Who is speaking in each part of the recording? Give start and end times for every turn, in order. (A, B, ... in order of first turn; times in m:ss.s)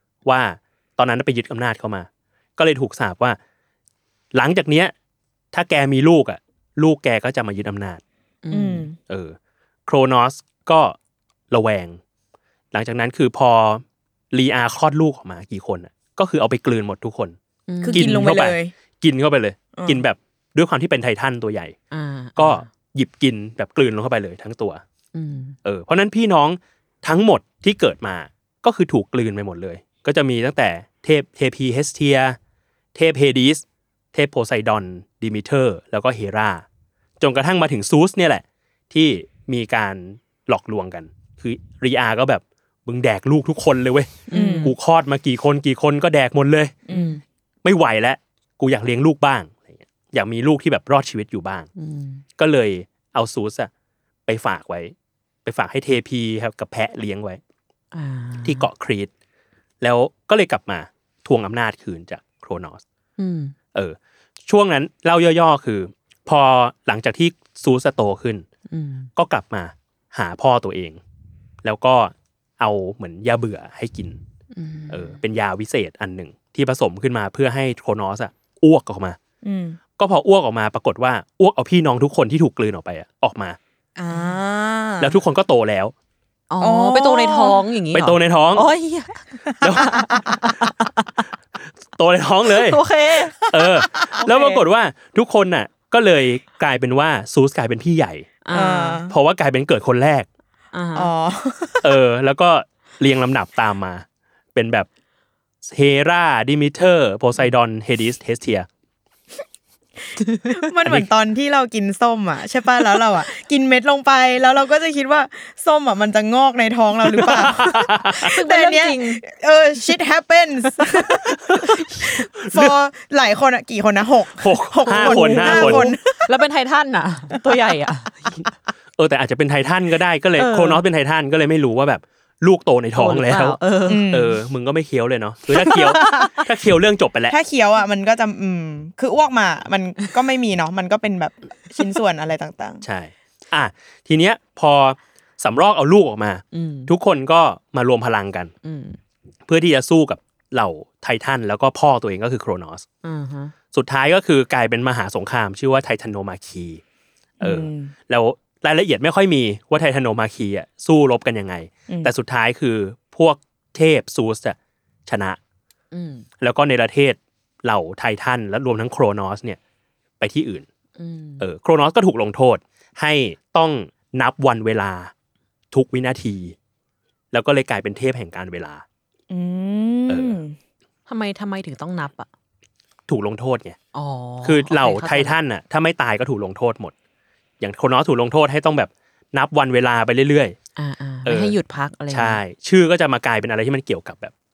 0:00.2-0:03.4 A
0:04.3-0:04.9 A
0:05.5-0:08.0 A
0:08.4-0:08.9 B
0:08.5-0:09.0 C
0:09.1-0:11.0 A
0:11.5-0:12.0 A
0:12.7-0:17.4 A
0:17.7-0:18.2 B
0:17.8-0:18.7 C
0:17.9-0:21.8 A
0:19.8-0:20.0 C
0:21.9-0:22.7 B
0:22.4-0:24.8 A
0:25.1-0:25.6 B
0:25.6-0:32.4 A
0:32.9-0:36.6 A
0:37.2-0:46.8 A
0:44.3-0:44.8 B
0:44.3-0:44.7 C
0:46.9-0:47.2 C
0:46.9-0:47.2 B
0:47.6-0:51.7 A
0:51.8-0:52.2 B
0:52.4-0:53.7 A
0:54.3-0:54.9 A
0:55.4-0:57.4 A
0:57.9-0:58.6 B
0:58.4-0:59.1 A
0:59.8-1:02.8 A
1:03.2-1:03.6 B
1:03.7-1:08.5 A
1:08.7-1:09.1 B
1:09.2-1:11.0 A
1:11.6-1:14.2 A
1:14.5-1:15.2 B
1:14.9-1:19.2 A
1:19.4-1:19.8 C
1:20.0-1:23.6 A
1:24.0-1:25.2 C
1:25.0-1:25.9 A
1:26.5-1:31.2 B
1:26.6-1:27.6 C
1:27.9-1:28.7 A
1:29.6-1:30.0 A
1:29.8-1:30.4 C
1:32.0-1:32.8 A
1:32.5-1:34.5 B
1:33.5-1:38.3 A
1:34.0-1:34.6 C
1:38.4-1:39.1 B
1:38.5-1:39.1 C
1:39.1-1:40.3 A
1:40.7-1:41.1 B
1:41.0-1:41.9 C
1:41.8-1:44.9 A
1:45.7-1:48.7 A
1:50.5-2:06.4 C
1:57.3-1:59.2 B
1:57.4-1:58.3 A
2:02.4-2:02.7 A
2:04.4-2:05.9 A
2:04.9-2:08.3 B
2:07.4-2:07.7 C
2:09.0-2:13.6 A
2:10.4-2:10.8 B
2:13.0-2:14.2 B
2:13.9-2:14.4 C
2:14.1-2:17.4 A
2:15.6-2:16.4 B
2:17.3-2:22.8 C
2:22.8-2:28.5 A
2:26.5-2:26.9 B
2:28.6-2:29.0 B
2:29.5-2:32.9 A
2:33.0-2:33.5 B
2:33.7-2:36.8 A
2:37.4-2:37.9 C
2:37.4-2:45.4 A
2:45.9-2:46.3 B
2:46.4-2:49.6 A
2:50.2-2:50.7 A
2:51.0-2:51.4 B
2:51.4-2:55.1 A
2:55.7-2:56.6 A
2:57.3-2:58.8 A
2:59.3-3:00.6 C
3:00.1-3:00.4 A
3:01.1-3:02.3 B
3:03.1-3:03.8 A
3:03.9-3:05.4 B
3:04.4-3:06.9 A
3:07.6-3:10.6 A
3:10.8-3:12.4 B
3:11.2-3:11.6 A
3:12.1-3:14.3 A